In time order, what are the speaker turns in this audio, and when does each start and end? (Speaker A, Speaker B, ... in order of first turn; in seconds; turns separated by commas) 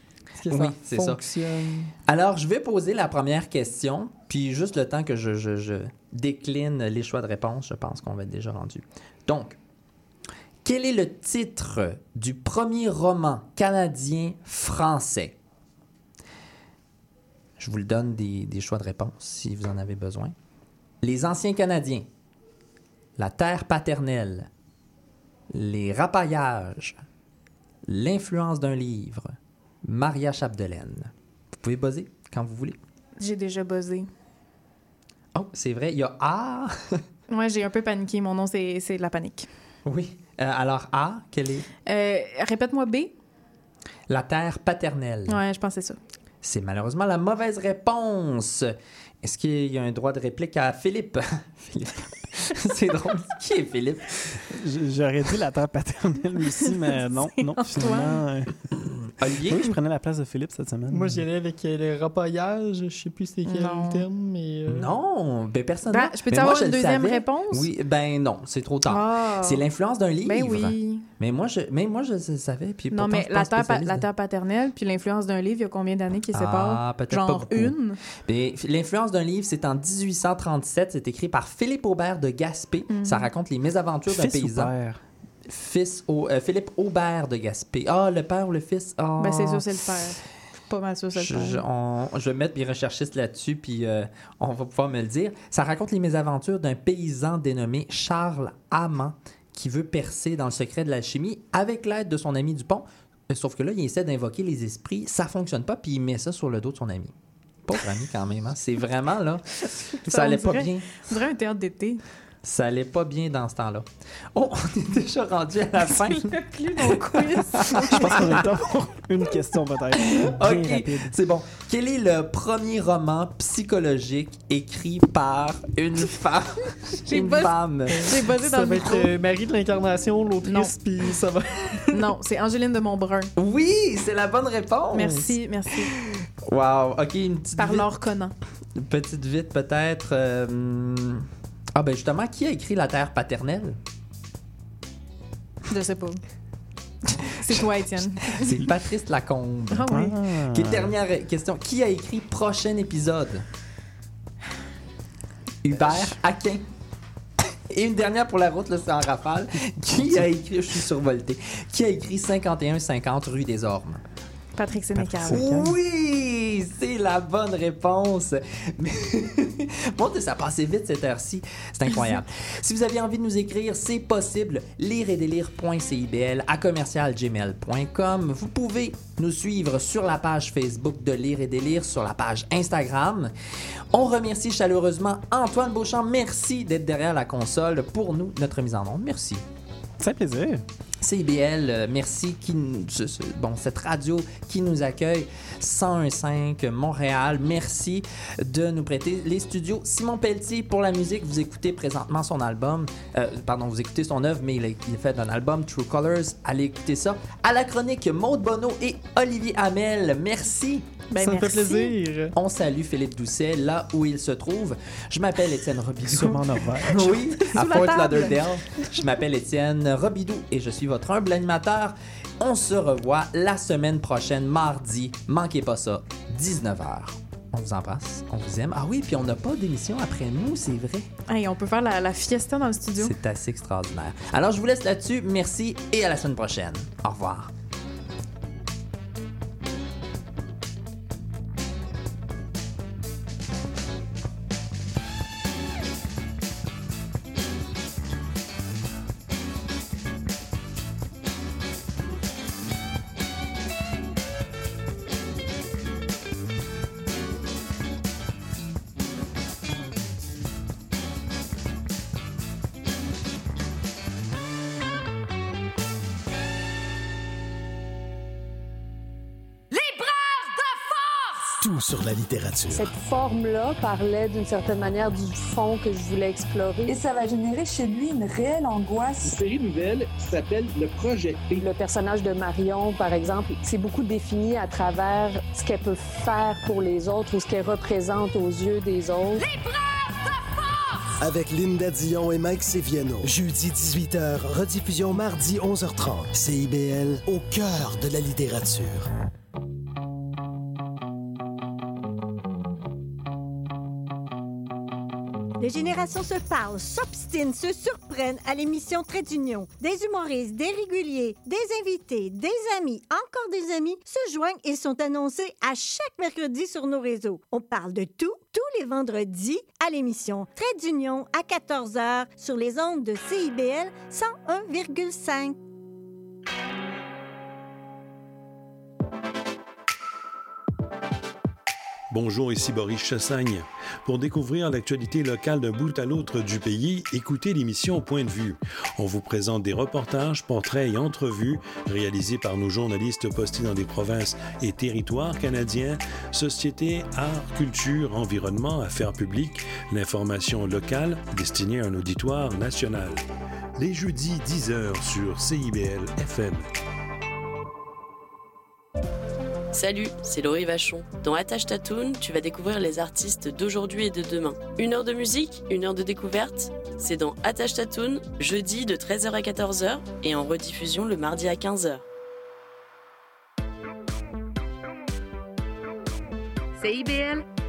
Speaker A: 0.4-1.9, Speaker B: 0.5-1.2, Speaker B: 2.1-9.6, Speaker B: 10.6-15.4, Speaker B: 17.6-20.3, Speaker B: 21.0-22.1, Speaker B: 23.2-24.5, Speaker B: 25.5-27.0, Speaker B: 27.9-32.8, Speaker C: 33.2-34.1, Speaker B: 35.4-37.0, Speaker C: 37.3-39.5, Speaker B: 39.9-41.7, Speaker C: 41.9-43.1, Speaker B: 44.1-45.4, Speaker C: 45.3-46.0, Speaker B: 46.4-54.2, Speaker D: 54.5-58.5, Speaker C: 56.7-58.2, Speaker B: 59.2-59.7, Speaker D: 59.4-61.2, Speaker A: 60.9-64.9, Speaker C: 63.5-64.0, Speaker B: 64.7-74.0, Speaker C: 65.9-67.7, Speaker C: 68.9-69.6, Speaker C: 70.2-71.1, Speaker C: 72.9-78.0, Speaker B: 76.3-77.8, Speaker B: 78.3-84.7, Speaker C: 82.9-83.3, Speaker D: 84.1-85.0, Speaker B: 85.5-89.7, Speaker C: 89.2-91.6, Speaker B: 91.2-107.1, Speaker B: 107.7-111.1, Speaker C: 110.1-112.0, Speaker B: 112.4-118.4, Speaker C: 116.0-118.5, Speaker D: 117.9-121.1, Speaker B: 120.1-128.1, Speaker C: 127.1-129.1, Speaker A: 127.9-131.9, Speaker C: 130.4-130.7, Speaker C: 131.9-133.3, Speaker B: 133.4-135.3, Speaker C: 134.9-135.9, Speaker B: 135.9-137.9, Speaker C: 137.6-138.3, Speaker B: 138.8-143.8, Speaker C: 145.7-146.2, Speaker B: 147.2-147.7, Speaker C: 147.4-148.5, Speaker B: 148.3-150.0, Speaker C: 149.7-150.1, Speaker D: 149.9-151.0, Speaker B: 150.5-153.4, Speaker B: 155.6-156.7, Speaker B: 157.7-164.0, Speaker C: 164.6-165.5, Speaker D: 164.9-165.8, Speaker B: 165.2-183.3, Speaker B: 183.9-189.4, Speaker D: 190.0-190.6, Speaker B: 191.0-210.9, Speaker C: 211.1-211.9, Speaker A: 211.2-212.3, Speaker B: 212.3-231.1, Speaker D: 216.1-217.1, Speaker C: 217.0-218.5, Speaker C: 231.3-233.2, Speaker B: 233.0-237.5, Speaker E: 271.6-272.9, Speaker F: 272.7-277.0, Speaker G: 276.9-279.2, Speaker H: 279.2-281.7, Speaker F: 281.6-289.5, Speaker E: 291.2-299.1, Speaker I: 305.6-325.6, Speaker J: 332.1-353.2, Speaker J: 353.8-356.7, Speaker K: 359.7-372.0, Speaker G: 376.8-377.5